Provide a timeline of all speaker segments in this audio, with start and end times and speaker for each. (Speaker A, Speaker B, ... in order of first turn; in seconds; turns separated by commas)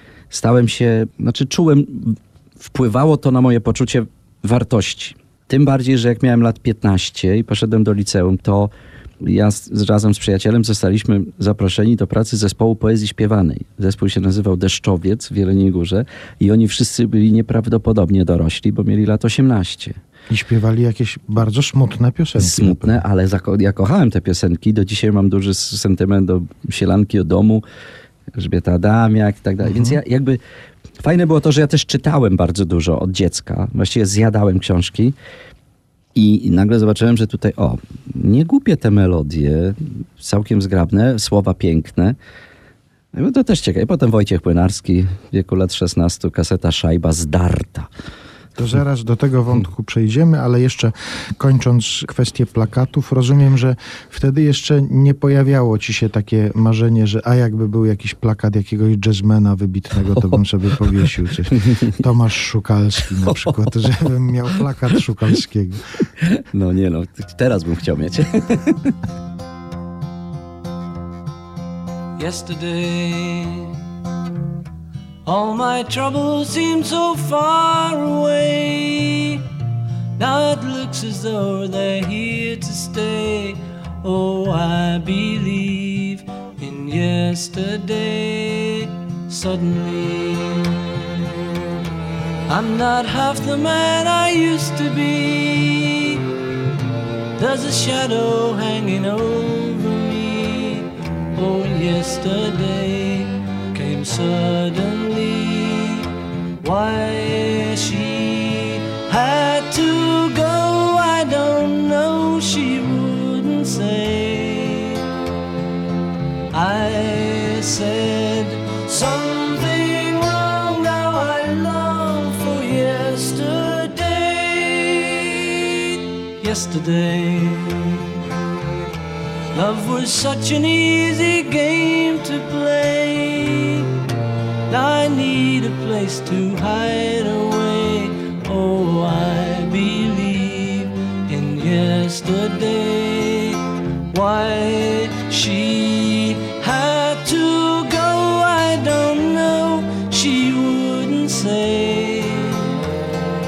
Speaker A: 0.3-20.0, Speaker B: 20.3-23.0, Speaker A: 22.3-27.6, Speaker A: 28.3-30.4, Speaker B: 29.6-30.0, Speaker A: 31.0-35.1, Speaker A: 36.1-42.2, Speaker A: 43.1-47.9, Speaker B: 48.6-65.8, Speaker A: 60.1-60.4, Speaker A: 60.9-61.9, Speaker A: 63.1-63.6, Speaker A: 66.2-68.9, Speaker C: 72.2-73.8, Speaker C: 75.2-79.4, Speaker C: 80.2-90.7, Speaker C: 92.5-96.2, Speaker C: 97.4-106.1, Speaker C: 106.6-115.0, Speaker C: 116.5-128.1, Speaker C: 129.5-133.9, Speaker C: 134.7-152.8